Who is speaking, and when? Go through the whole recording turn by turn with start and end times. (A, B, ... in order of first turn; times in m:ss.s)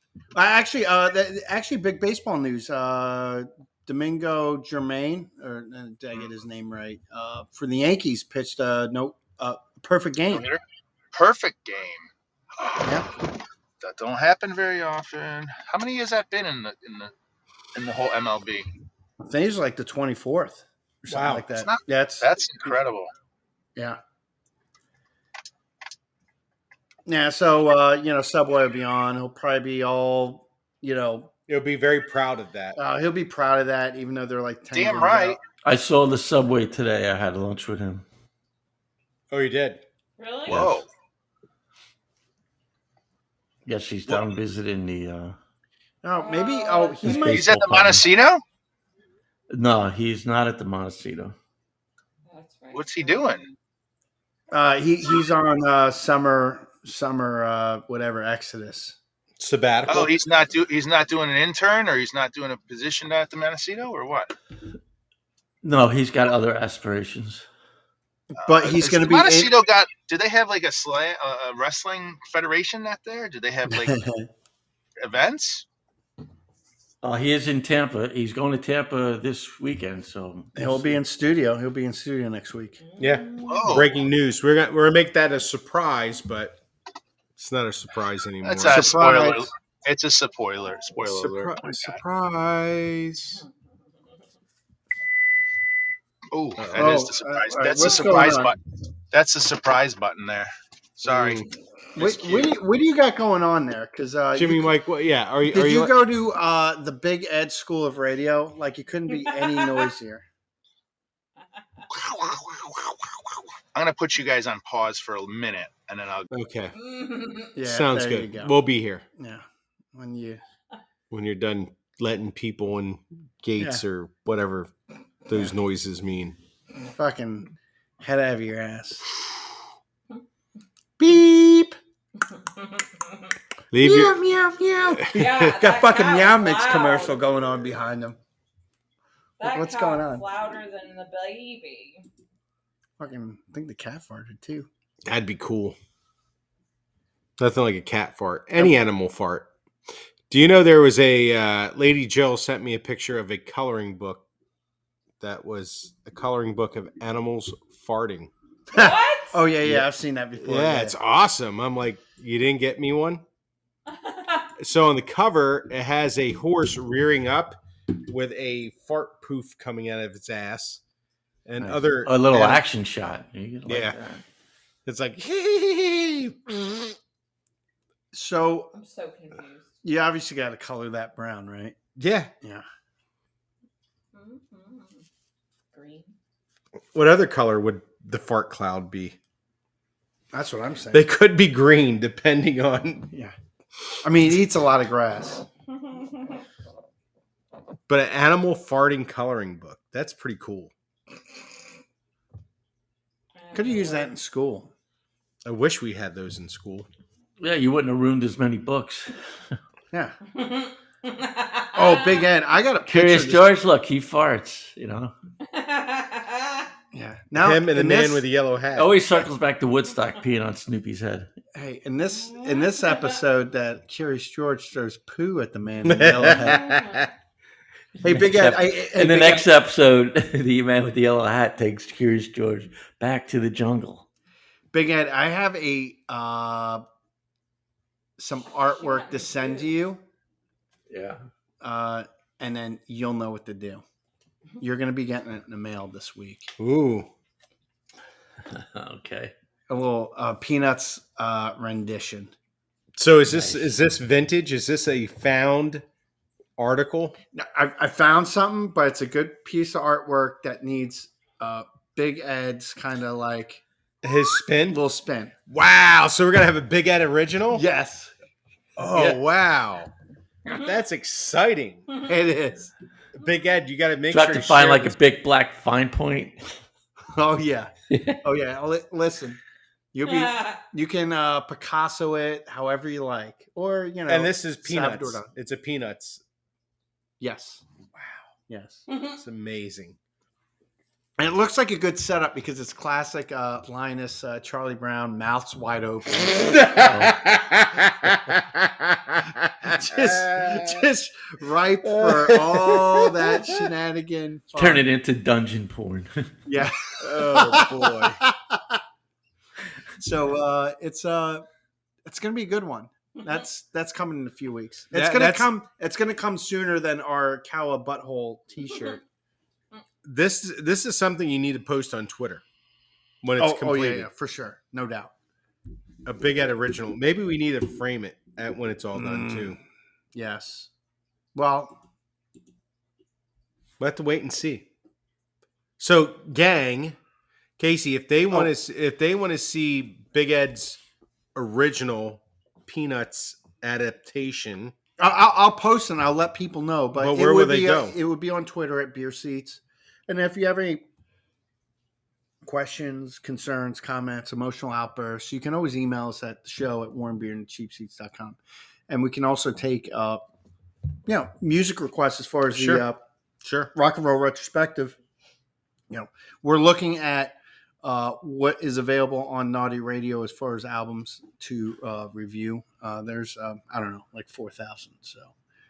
0:00.3-0:10.5 A
0:10.3-0:12.1 B
0:12.8-0:13.1 A
0:13.8-0:17.1 B
0:17.7-0:18.7 B
0:19.2-0:22.7 A
0:21.1-0:21.5 C
0:21.6-0:23.1 B
0:27.0-0:31.3 A
0:31.5-0:32.8 C
0:32.8-0:35.4 A
0:34.7-0:35.4 B
0:35.6-0:38.0 D
0:39.3-0:39.8 C
0:40.2-0:40.7 E
0:40.5-0:40.9 B
0:40.5-0:40.8 C
0:43.6-0:45.4 D
0:46.0-0:47.7 A
0:46.2-0:47.2 E
0:47.0-0:48.0 D
0:47.1-0:48.4 B
0:49.5-0:51.4 D
0:52.2-0:53.5 E
0:52.7-0:53.4 B
0:54.5-0:59.0 A
0:59.4-1:00.2 C
0:59.8-1:04.3 B
1:05.6-1:07.5 D
1:08.4-1:14.0 B
1:08.4-1:09.6 A
1:13.7-1:14.3 A
1:15.0-1:15.6 B
1:17.0-1:21.0 D
1:20.6-1:22.8 A
1:22.8-1:23.7 E
1:23.0-1:26.6 C
1:23.4-1:23.9 B
1:27.4-1:29.0 C
1:28.4-1:32.0 B
1:28.6-1:29.5 A
1:31.0-1:33.4 C
1:36.3-1:38.6 B
1:36.6-1:37.1 C
1:36.8-1:38.5 A
1:39.1-1:41.4 B
1:41.0-1:41.5 C
1:42.0-1:44.7 A
1:42.0-1:42.5 B
1:44.3-1:45.9 C
1:45.4-1:50.2 A
1:49.5-1:49.9 E
1:53.7-1:56.3 B
1:56.3-1:56.8 C
1:56.8-1:57.5 E
1:57.5-1:58.5 A
1:57.6-1:59.0 C
1:59.2-2:00.4 A
2:01.1-2:04.7 C
2:05.2-2:06.4 C
2:06.9-2:09.1 A
2:11.0-2:11.8 A
2:13.7-2:14.2 C
2:13.8-2:18.2 A
2:14.9-2:15.5 C
2:15.1-2:17.2 E
2:19.4-2:22.0 E
2:19.4-2:20.2 A
2:23.0-2:24.7 A
2:25.0-2:25.8 C
2:27.4-2:29.5 C
2:30.3-2:34.2 C
2:35.2-2:38.3 C
2:38.7-2:40.9 A
2:38.7-2:39.4 E
2:40.4-2:43.2 C
2:43.9-2:44.5 E
2:44.6-2:50.8 C
2:51.4-2:52.6 C
2:51.6-2:51.9 A
2:52.0-2:54.2 D
2:53.7-2:54.0 C
2:54.8-2:57.0 C
2:58.1-2:58.7 A
2:58.7-2:59.7 E
2:59.8-3:01.7 A
3:02.0-3:02.3 C
3:04.1-3:05.0 E
3:05.7-3:06.1 E
3:06.9-3:09.2 C
3:10.3-3:11.0 A
3:10.9-3:13.1 C
3:14.0-3:15.4 A
3:15.9-3:16.3 E
3:17.9-3:20.7 C
3:23.3-3:24.1 E
3:23.5-3:24.7 A
3:25.4-3:26.9 C
3:27.4-3:29.2 D
3:30.3-3:32.3 E
3:31.7-3:33.5 A
3:32.9-3:35.1 D
3:35.5-3:36.7 E
3:36.9-3:38.2 A
3:37.4-3:38.9 C
3:38.7-3:41.3 D
3:41.5-3:46.8 A
3:42.3-3:43.0 E
3:45.8-3:47.1 C
3:46.4-3:47.0 E
3:48.0-3:54.0 D
3:48.0-3:49.4 A
3:54.7-3:56.8 A
3:58.2-4:00.0 A
3:58.8-3:59.7 E
4:00.9-4:01.2 D
4:01.6-4:03.8 A
4:04.6-4:06.5 A
4:06.6-4:07.1 C
4:08.4-4:09.3 D
4:09.7-4:12.3 A
4:13.0-4:15.8 C
4:13.2-4:13.7 D
4:16.6-4:17.2 C
4:17.3-4:23.6 A
4:24.0-4:24.8 C
4:24.7-4:25.3 A
4:25.5-4:27.6 C
4:27.5-4:28.1 A
4:28.8-4:29.9 C
4:30.5-4:31.9 C
4:32.0-4:32.7 A
4:33.1-4:35.0 C
4:34.1-4:36.5 D
4:37.1-4:39.4 A
4:37.9-4:38.2 D
4:39.9-4:45.3 A
4:40.3-4:40.5 E
4:44.1-4:46.2 C
4:47.2-4:47.6 A
4:48.5-4:48.8 A
4:48.9-4:49.2 E
4:49.2-4:50.0 C
4:51.2-4:56.8 A
4:56.6-5:00.8 C
4:56.7-4:57.2 D
4:59.6-5:04.8 A
5:01.8-5:03.6 C
5:04.5-5:06.3 D
5:06.4-5:08.8 A
5:07.0-5:08.2 C
5:10.0-5:11.4 A
5:12.0-5:19.0 A
5:14.9-5:15.5 C
5:20.0-5:22.4 C
5:23.2-5:24.1 C
5:23.4-5:25.1 A
5:26.0-5:29.6 C
5:28.9-5:29.6 A
5:30.1-5:30.7 A
5:31.3-5:31.8 A
5:33.8-5:34.7 C
5:35.8-5:37.0 C
5:37.6-5:40.8 C
5:41.3-5:44.7 C
5:45.0-5:50.8 A
5:46.9-5:48.0 C
5:52.4-5:58.4 A
5:58.9-6:00.2 A
6:01.1-6:03.0 A
6:02.5-6:02.8 C
6:03.4-6:03.7 C
6:03.7-6:05.0 A
6:05.9-6:15.3 A